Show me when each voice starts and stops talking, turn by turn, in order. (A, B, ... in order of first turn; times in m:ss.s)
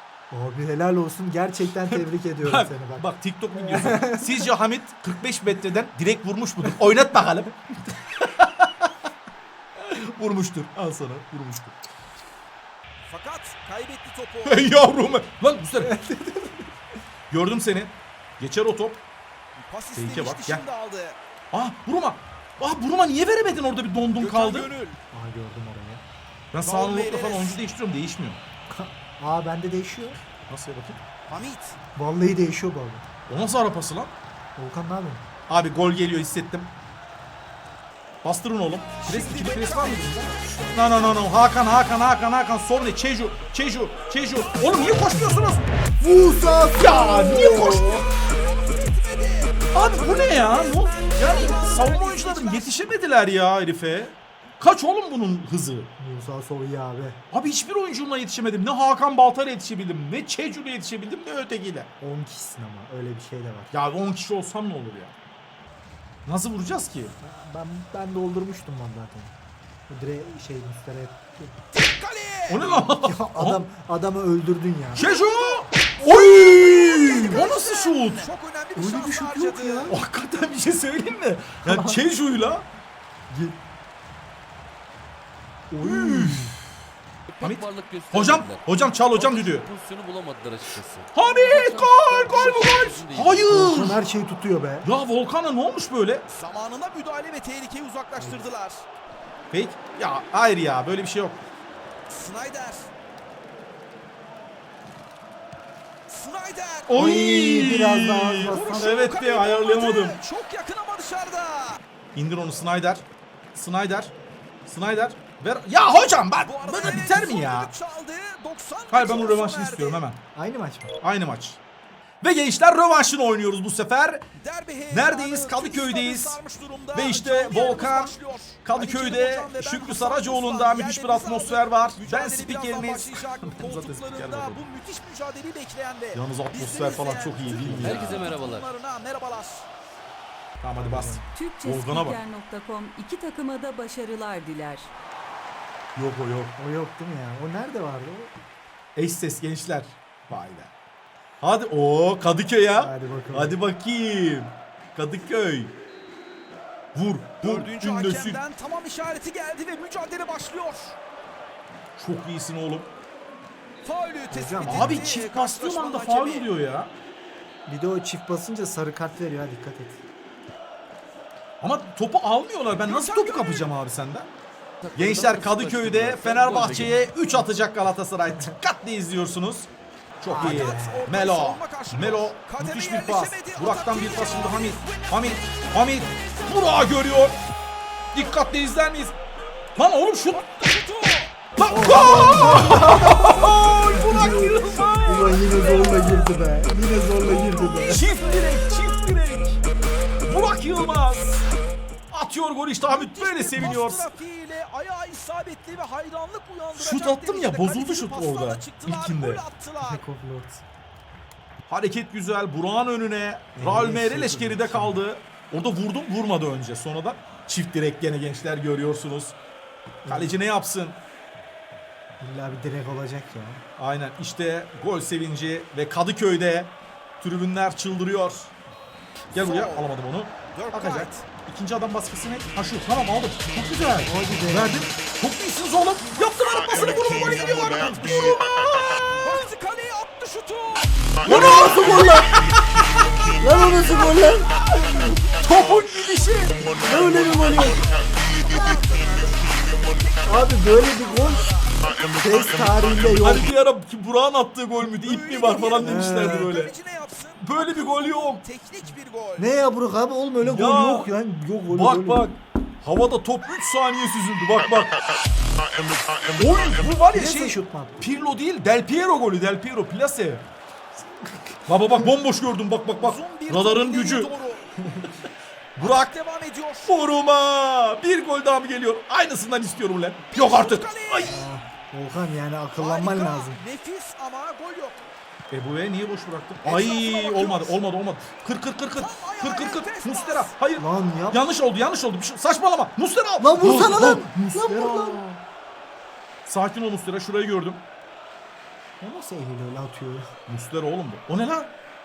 0:00.3-0:03.1 A
0:01.9-0:07.5 B
0:03.6-0:04.5 A
0:09.8-0:11.7 B
0:13.1-0:14.6 C
0:14.4-0:16.0 B
0:15.8-0:16.7 A
0:17.3-0:19.0 B
0:19.6-0:21.2 C
0:20.0-0:20.6 B
0:21.5-0:24.7 B
0:24.2-0:25.0 C
0:25.1-0:26.0 A
0:26.5-0:28.4 B
0:26.6-0:27.6 C
0:28.7-0:30.2 A
0:30.5-0:31.0 B
0:31.3-0:31.8 C
0:31.9-0:33.0 A
0:33.3-0:34.1 B
0:34.6-0:35.2 A
0:35.5-0:36.7 B
0:38.2-0:45.7 B
0:39.0-0:40.2 C
0:44.4-0:45.6 C
0:46.0-0:48.1 A
0:46.7-0:48.0 B
0:47.4-0:52.8 C
0:49.7-0:55.9 B
0:56.0-0:57.2 A
0:57.3-1:01.9 B
1:02.0-1:03.7 A
1:03.7-1:05.1 B
1:06.2-1:07.1 B
1:07.2-1:09.3 A
1:09.9-1:11.5 A
1:11.7-1:12.7 C
1:12.5-1:13.6 B
1:12.8-1:15.0 A
1:14.9-1:18.3 B
1:15.0-1:19.9 C
1:16.1-1:17.4 A
1:18.8-1:20.0 A
1:19.8-1:22.6 B
1:21.6-1:22.0 A
1:25.7-1:26.6 A
1:25.8-1:26.6 B
1:27.3-1:33.6 D
1:27.4-1:29.7 B
1:31.1-1:34.0 B
1:33.5-1:34.9 A
1:34.8-1:36.2 B
1:36.3-1:38.8 C
1:39.5-1:41.4 B
1:42.1-1:42.9 C
1:46.1-1:47.0 C
1:46.9-1:50.2 B
1:46.9-1:49.1 A
1:48.5-1:51.8 C
1:52.1-1:53.0 B
1:53.5-1:54.1 B
1:54.6-1:57.7 B
1:56.4-2:00.0 C
1:58.9-2:00.2 B
2:00.3-2:00.9 A
2:01.0-2:01.6 B
2:02.2-2:04.2 B
2:04.4-2:19.7 C
2:04.9-2:06.4 B
2:06.9-2:14.6 B
2:16.1-2:18.4 B
2:17.7-2:18.7 D
2:20.6-2:22.2 B
2:20.8-2:21.2 A
2:21.3-2:24.9 E
2:26.0-2:26.5 B
2:26.6-2:28.3 A
2:29.0-2:30.7 B
2:31.4-2:35.7 B
2:32.8-2:33.6 A
2:36.9-2:38.4 B
2:37.4-2:41.0 C
2:42.0-2:42.9 B
2:43.8-2:46.5 C
2:44.3-2:45.2 A
2:44.6-2:46.9 B
2:47.6-2:50.0 A
2:51.6-2:54.3 B
2:52.8-2:53.7 C
2:54.8-2:57.1 D
2:54.9-2:59.7 B
3:00.2-3:07.4 B
3:00.2-3:01.1 A
3:00.3-3:05.2 C
3:08.1-3:09.1 B
3:09.8-3:10.4 B
3:10.3-3:11.4 C
3:11.6-3:15.5 B
3:11.7-3:18.0 A
3:15.0-3:16.3 C
3:17.2-3:18.8 C
3:17.8-3:19.6 B
3:20.3-3:21.4 B
3:22.1-3:24.1 B
3:22.9-3:30.0 C
3:26.8-3:29.4 B
3:29.8-3:30.6 A
3:31.7-3:39.3 B
3:33.6-3:35.0 A
3:40.0-3:40.4 A
3:40.0-3:41.0 B
3:42.2-3:43.6 A
3:43.8-3:48.5 B
3:49.3-3:58.5 B
3:49.3-3:49.9 C
3:50.5-3:51.2 C
3:54.0-3:54.9 A
3:56.7-3:58.4 C
3:59.2-4:01.1 C
4:01.2-4:02.2 B
4:01.2-4:05.2 A
4:04.1-4:11.9 C
4:05.4-4:06.7 B
4:06.8-4:07.8 A
4:10.2-4:11.5 A
4:12.1-4:13.5 A
4:13.0-4:16.7 B
4:14.8-4:19.5 C
4:15.8-4:16.6 A
4:17.4-4:18.4 B
4:19.4-4:22.3 A
4:20.4-4:21.1 B
4:21.7-4:25.0 B
4:26.4-4:30.4 B
4:27.1-4:28.0 A
4:31.7-4:34.3 B
4:33.0-4:34.8 C
4:34.8-4:35.1 A
4:35.8-4:36.1 B
4:35.8-4:36.9 C
4:36.8-4:41.4 B
4:40.3-4:41.4 C
4:41.3-4:43.6 A
4:42.8-4:45.0 C
4:45.5-4:55.4 B
4:46.6-4:47.8 C
4:49.0-4:50.5 C
4:50.8-4:51.4 A
4:53.4-4:55.2 A
4:56.4-4:57.8 B
4:59.0-5:00.2 A
5:00.5-5:01.7 B